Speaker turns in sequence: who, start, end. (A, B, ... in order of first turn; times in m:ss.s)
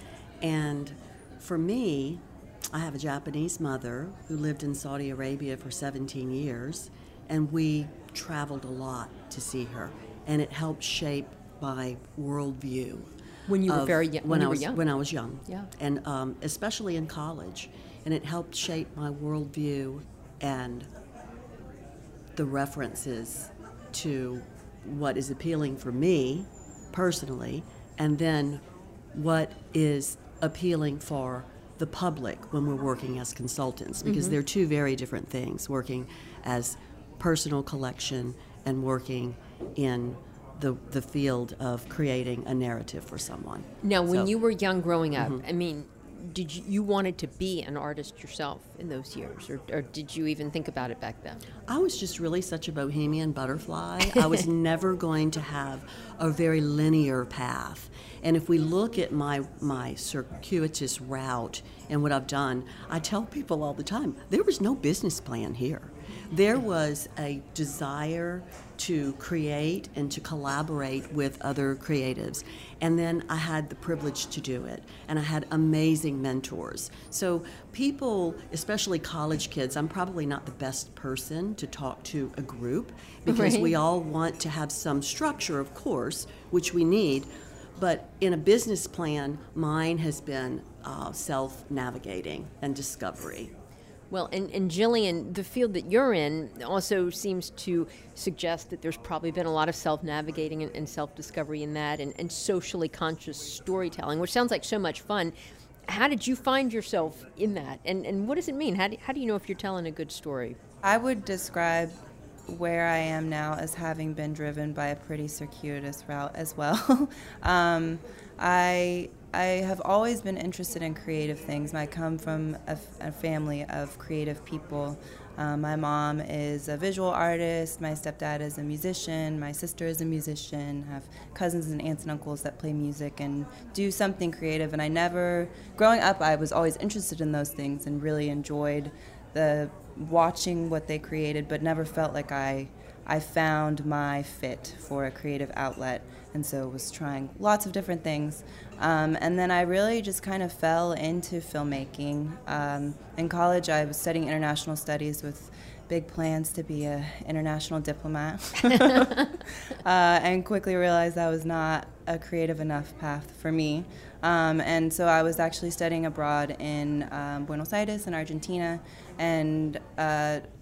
0:00.4-0:13.1 A
0:13.5-0:14.9 B
0:13.6-0:20.9 A
0:22.4-0:44.3 A
0:34.0-0:34.4 B
0:43.8-0:51.4 B
0:45.2-0:45.4 A
0:51.7-1:33.5 A
0:54.1-0:54.4 B
1:23.3-1:23.8 B
1:34.1-1:45.3 B
1:45.9-1:50.6 B
1:50.8-1:52.0 C
1:52.5-2:50.5 C